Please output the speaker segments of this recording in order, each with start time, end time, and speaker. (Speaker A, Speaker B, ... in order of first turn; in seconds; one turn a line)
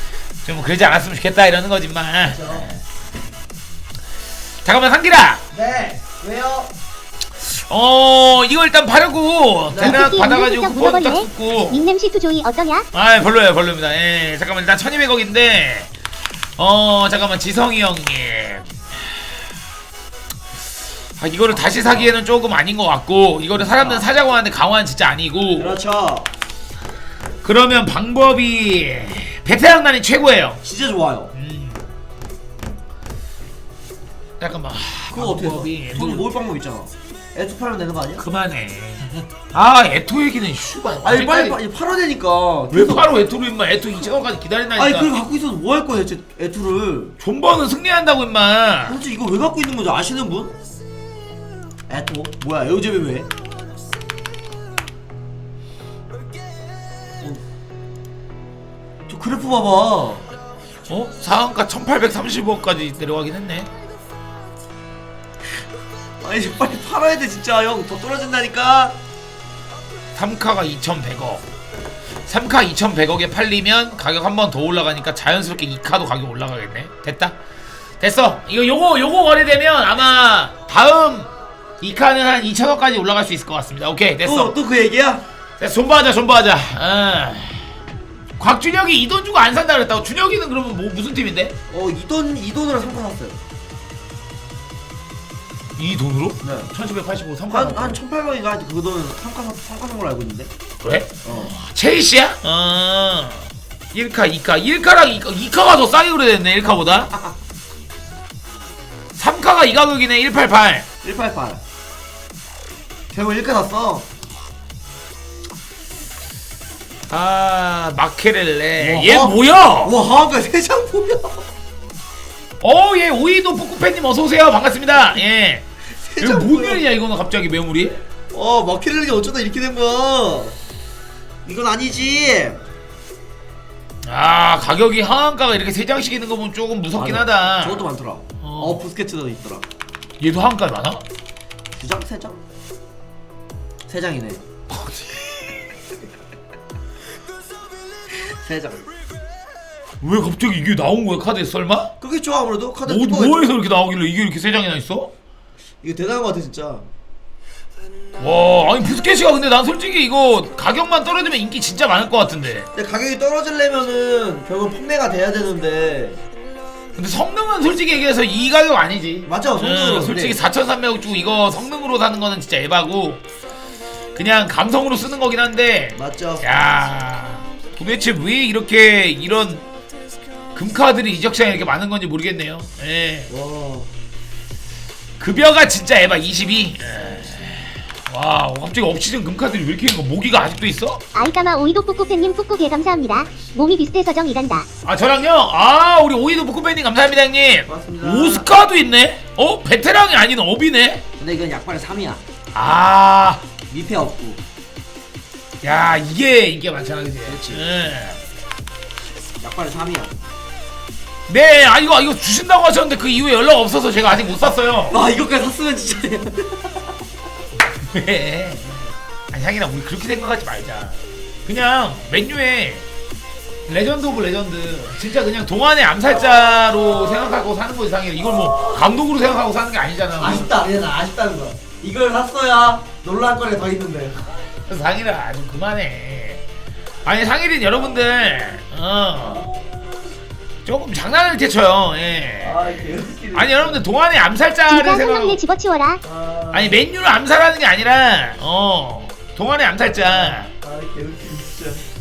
Speaker A: 0.4-2.8
Speaker B: 2.2-2.7
Speaker A: 4.6-5.4
Speaker B: 5.5-6.7
Speaker A: 7.4-11.8
Speaker B: 9.7-10.2
Speaker C: 9.8-12.9
Speaker A: 12.9-15.9
Speaker A: 16.6-18.7
Speaker A: 21.2-25.8
Speaker B: 21.5-22.2
Speaker B: 23.5-24.1
Speaker B: 25.6-26.3
Speaker A: 27.4-30.6
Speaker B: 30.6-31.3
Speaker A: 31.3-31.8
Speaker A: 34.4-36.3
Speaker B: 35.1-38.2
Speaker A: 38.2-41.6
Speaker B: 41.0-43.1
Speaker A: 42.7-45.1
Speaker B: 44.8-47.2
Speaker A: 47.2-49.0
Speaker B: 48.9-50.6
Speaker B: 51.9-53.3
Speaker B: 59.1-60.3
Speaker A: 60.9-63.7
Speaker B: 66.2-69.0
Speaker A: 70.2-71.5
Speaker A: 72.2-77.4
Speaker A: 78.0-81.3
Speaker A: 81.8-84.5
Speaker B: 84.2-85.2
Speaker A: 85.6-87.8
Speaker A: 88.4-91.6
Speaker B: 91.7-93.4
Speaker A: 95.8-98.0
Speaker B: 96.4-96.7
Speaker B: 97.5-100.5
Speaker A: 100.8-107.1
Speaker B: 101.2-101.5
Speaker A: 109.2-110.9
Speaker B: 111.0-111.6
Speaker B: 113.1-114.1
Speaker A: 117.1-120.0
Speaker B: 118.8-121.5
Speaker A: 122.6-125.7
Speaker B: 126.0-126.8
Speaker A: 126.2-128.0
Speaker B: 128.3-130.6
Speaker B: 131.4-132.6
Speaker A: 134.1-137.9
Speaker B: 136.9-139.7
Speaker A: 138.4-138.8
Speaker A: 140.2-141.0
Speaker B: 141.8-142.4
Speaker B: 143.9-144.4
Speaker A: 144.7-145.5
Speaker B: 148.3-148.9
Speaker A: 150.0-151.9
Speaker B: 152.0-153.5
Speaker A: 152.9-155.1
Speaker B: 155.8-156.9
Speaker A: 158.2-162.7
Speaker B: 162.8-166.2
Speaker A: 167.0-173.2
Speaker B: 169.2-170.4
Speaker A: 174.2-179.7
Speaker B: 175.9-176.5
Speaker A: 180.5-183.3
Speaker B: 183.3-183.9
Speaker A: 185.2-191.0
Speaker C: 191.2-194.7
Speaker A: 194.8-201.1
Speaker B: 197.7-198.5
Speaker B: 201.2-202.2
Speaker A: 202.5-203.4
Speaker B: 203.7-204.4
Speaker A: 205.6-208.2
Speaker B: 207.3-207.7
Speaker B: 209.4-210.2
Speaker A: 211.3-215.0
Speaker B: 214.9-216.9
Speaker A: 217.8-218.7
Speaker A: 219.3-222.8
Speaker A: 223.7-230.5
Speaker B: 226.1-227.3
Speaker B: 228.2-229.0
Speaker B: 230.2-234.3
Speaker A: 234.7-236.4
Speaker A: 237.1-239.5
Speaker B: 239.2-239.9
Speaker A: 240.7-242.8
Speaker B: 242.4-243.9
Speaker A: 243.3-245.4
Speaker C: 244.7-246.0
Speaker B: 246.0-246.8
Speaker A: 246.5-250.5
Speaker B: 250.0-251.8